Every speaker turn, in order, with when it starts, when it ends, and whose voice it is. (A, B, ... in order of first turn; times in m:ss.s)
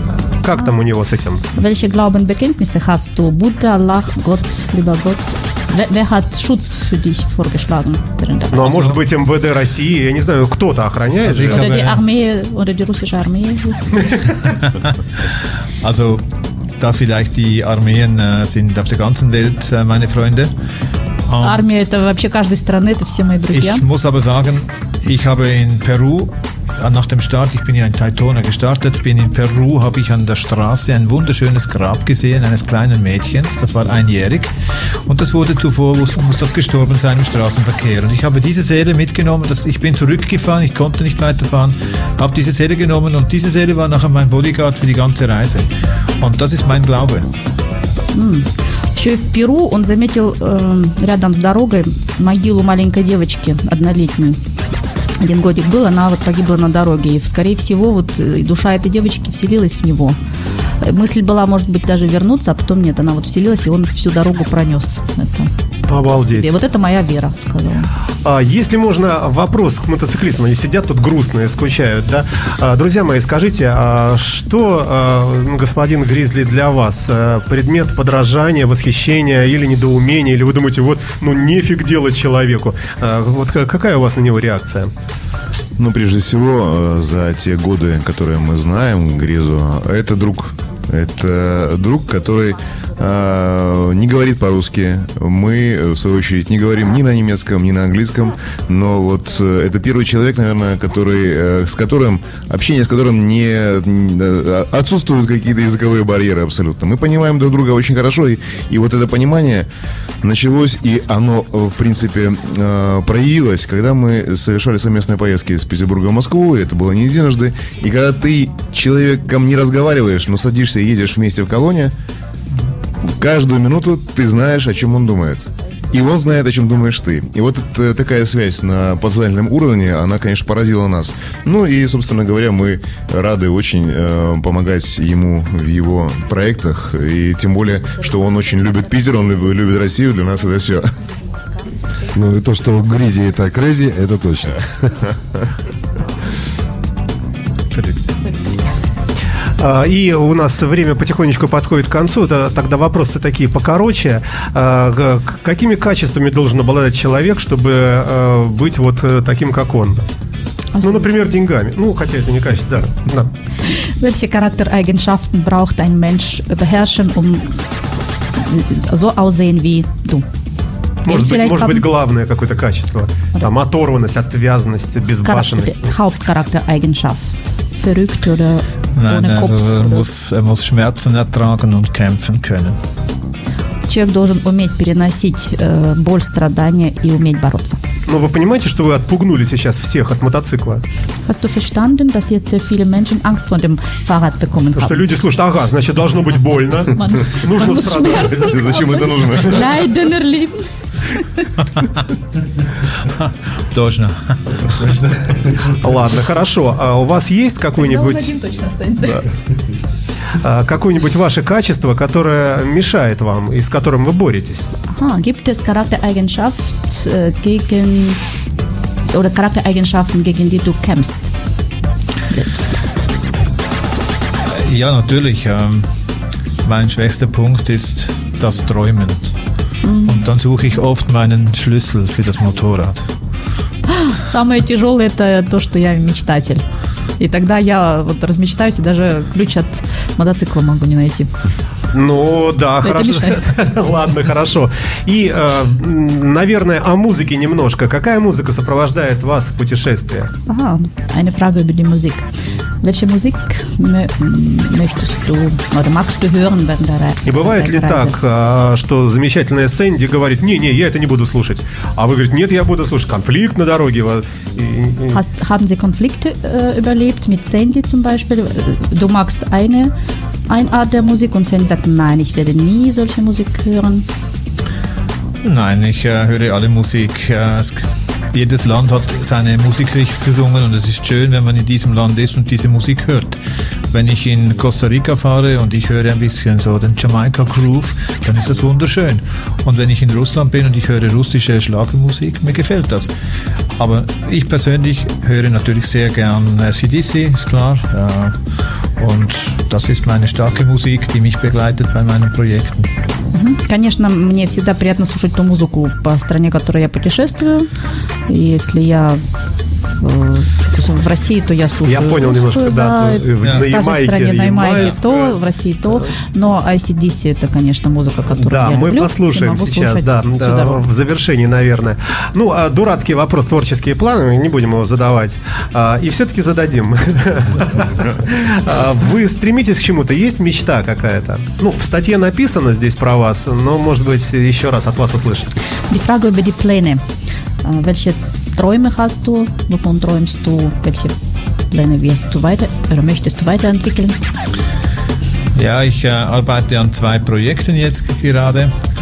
0:00.4-0:01.4 A
0:01.5-0:08.9 B
0:08.5-0:11.6 A
0:08.6-0:09.0 C
0:11.2-0:12.0 C
0:11.4-0:14.0 B
0:14.5-0:16.3 C
0:16.8-0:20.5 C
0:21.3-0:21.6 C
0:21.4-0:23.8 B
0:23.5-0:34.5 C
0:35.0-0:45.7 C
0:46.2-0:47.3 C
0:48.1-0:54.4 B
0:55.2-1:00.2 B
1:00.8-1:07.9 B
1:05.9-1:06.5 A
1:08.2-1:24.9 A
1:25.8-1:49.7 D
1:50.2-2:01.9 D
2:03.0-2:21.0 D
2:22.1-2:24.9 E
2:27.7-2:28.0 C
2:29.6-2:40.0 A
2:40.8-2:41.1 B
2:40.8-2:43.3 A
2:43.7-2:47.7 B
2:48.4-2:50.3 B
2:51.1-2:51.9 B
2:51.1-2:55.9 A
2:55.2-3:00.0 B
2:59.0-3:02.8 C
3:03.9-3:07.8 B
3:08.1-3:10.8 A
3:11.3-3:15.0 B
3:14.8-3:18.8 A
3:17.0-3:21.5 B
3:18.4-3:19.7 D
3:23.0-3:25.0 C
3:25.6-3:28.3 A
3:27.8-3:29.2 B
3:30.4-3:34.7 A
3:34.9-3:38.2 B
3:39.1-3:41.3 B
3:42.3-3:42.8 B
3:44.5-3:45.9 C
3:46.6-3:49.4 C
3:49.8-3:50.3 B
3:50.0-3:53.1 C
3:53.9-3:56.6 B
3:57.2-4:01.3 B
4:01.9-4:10.3 A
4:02.8-4:03.6 B
4:10.5-4:12.3 B
4:12.8-4:18.1 B
4:17.3-4:25.2 A
4:25.1-4:29.9 B
4:30.5-4:34.1 B
4:35.4-4:53.1 C
4:53.8-5:02.9 C
5:03.3-5:07.7 B
5:08.3-5:09.2 B
5:09.8-5:20.8 B
5:11.9-5:15.4 A
5:13.4-5:13.7 C
5:18.4-5:35.5 A
5:35.9-5:37.0 B
5:37.6-5:41.1 B
5:41.7-5:44.2 B
5:45.6-5:48.7 C